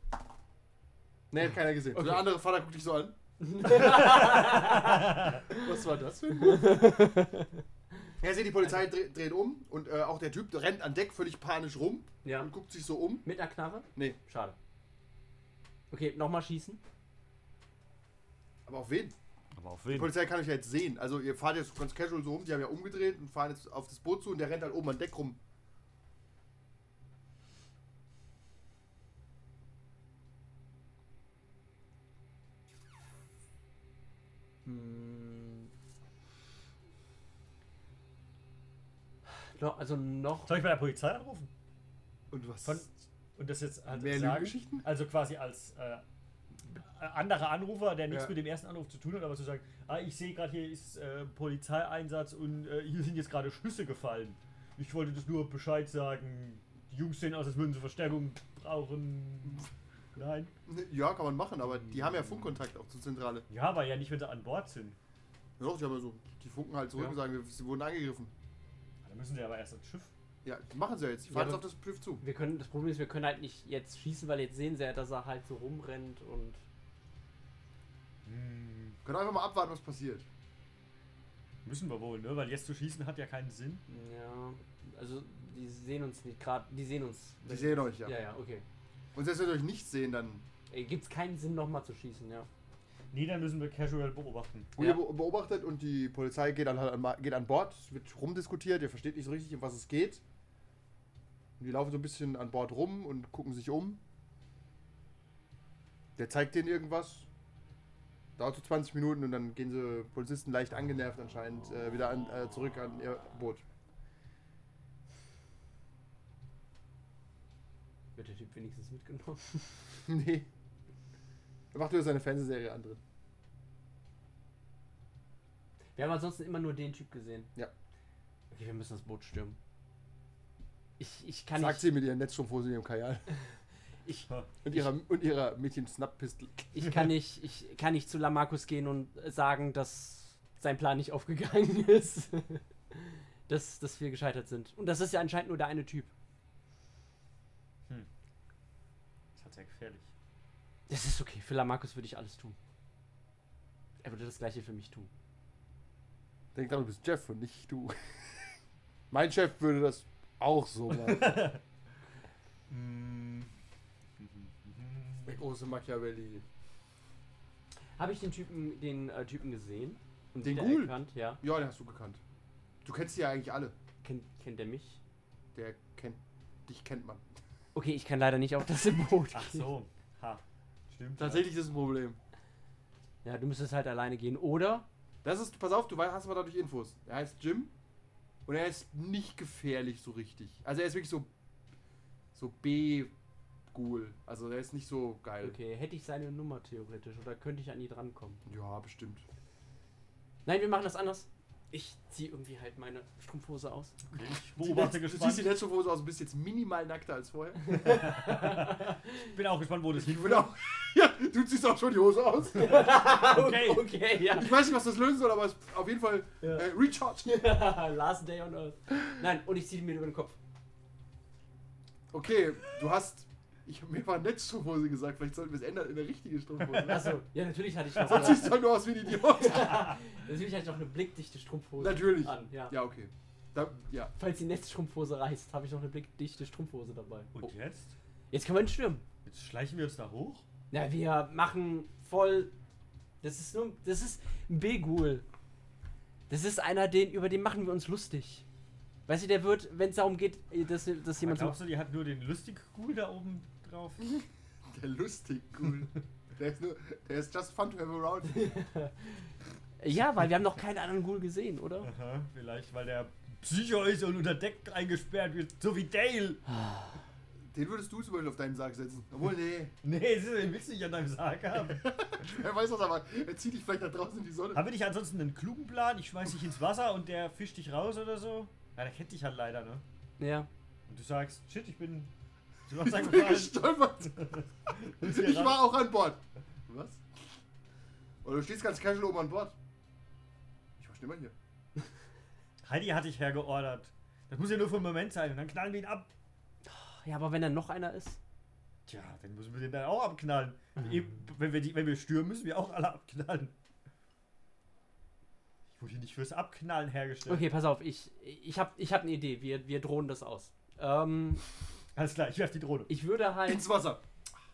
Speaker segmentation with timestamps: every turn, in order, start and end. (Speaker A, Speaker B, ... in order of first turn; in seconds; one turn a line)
Speaker A: 1.3-4.8
Speaker B: 1.9-2.2
Speaker B: 3.4-5.7
Speaker A: 5.5-7.0
Speaker B: 6.4-7.5
Speaker A: 8.2-13.2
Speaker B: 12.2-12.5
Speaker B: 13.2-14.6
Speaker B: 15.9-16.8
Speaker A: 18.7-19.1
Speaker C: 19.6-20.1
Speaker A: 19.9-25.4
Speaker B: 34.6-35.7
Speaker B: 39.5-40.5
Speaker C: 40.5-41.5
Speaker A: 42.3-42.9
Speaker C: 42.6-46.0
Speaker A: 43.9-44.9
Speaker C: 46.8-60.5
Speaker A: 48.1-48.3
Speaker A: 60.7-63.5
Speaker C: 63.5-65.0
Speaker A: 65.6-68.3
Speaker C: 69.0-70.1
Speaker A: 70.4-72.2
Speaker B: 71.3-71.6
Speaker B: 72.2-76.6
Speaker C: 78.2-79.0
Speaker A: 79.0-80.2
Speaker C: 81.7-83.8
Speaker B: 83.9-88.7
Speaker A: 87.5-88.2
Speaker A: 89.2-90.4
Speaker B: 90.7-92.5
Speaker C: 93.1-94.7
Speaker A: 94.8-100.2
Speaker A: 101.6-104.0
Speaker A: 106.2-107.3
Speaker A: 108.4-113.6
Speaker B: 118.2-119.7
Speaker A: 120.1-120.5
Speaker A: 121.7-123.0
Speaker B: 126.0-127.5
Speaker B: 128.5-129.6
Speaker B: 131.0-131.9
Speaker A: 131.6-133.2
Speaker B: 134.1-134.9
Speaker A: 134.6-136.9
Speaker B: 136.7-146.1
Speaker C: 149.4-150.1
Speaker B: 150.9-152.6
Speaker B: 154.0-155.1
Speaker A: 156.6-158.6
Speaker A: 159.1-161.6
Speaker C: 161.1-161.6
Speaker C: 162.7-163.5
Speaker C: 164.2-165.4
Speaker A: 165.2-166.4
Speaker B: 168.0-171.4
Speaker A: 170.4-172.2
Speaker A: 172.8-173.8
Speaker B: 174.0-175.0
Speaker A: 175.6-177.2
Speaker B: 177.8-179.7
Speaker C: 179.3-181.5
Speaker A: 181.2-182.2
Speaker B: 183.2-184.9
Speaker A: 185.2-187.7
Speaker A: 188.5-191.3
Speaker A: 192.3-193.1
Speaker A: 193.7-195.6
Speaker B: 195.4-198.4
Speaker A: 198.5-199.2
Speaker B: 200.4-204.0
Speaker C: 204.1-205.5
Speaker A: 204.6-207.8
Speaker B: 207.7-209.1
Speaker C: 207.7-210.5
Speaker A: 209.9-212.8
Speaker B: 212.6-214.6
Speaker C: 212.8-213.9
Speaker A: 214.3-217.4
Speaker B: 216.4-216.7
Speaker B: 217.2-220.4
Speaker A: 222.1-227.2
Speaker C: 226.7-227.2
Speaker B: 226.8-232.8
Speaker C: 228.0-228.5
Speaker A: 228.0-229.9
Speaker C: 229.6-229.9
Speaker A: 231.8-234.1
Speaker B: 234.2-237.3
Speaker C: 237.3-237.9
Speaker B: 238.3-239.0
Speaker C: 239.2-240.4
Speaker B: 240.7-242.5
Speaker B: 243.2-245.2
Speaker B: 246.3-248.4
Speaker B: 249.1-251.6
Speaker C: 251.2-254.1
Speaker A: 254.0-258.5
Speaker B: 258.3-258.9
Speaker B: 259.8-261.9
Speaker C: 261.8-266.5
Speaker A: 267.5-269.7
Speaker C: 269.8-271.9
Speaker A: 271.6-274.6
Speaker C: 274.5-279.8
Speaker B: 280.2-280.5
Speaker C: 280.9-282.1
Speaker C: 282.7-285.6
Speaker A: 282.8-287.0
Speaker A: 288.2-289.6
Speaker A: 290.8-291.3
Speaker C: 292.6-296.1
Speaker B: 296.6-298.2
Speaker C: 298.9-303.5
Speaker C: 305.7-307.5
Speaker B: 307.3-311.4
Speaker C: 312.0-312.9
Speaker B: 312.9-313.7
Speaker A: 313.5-314.0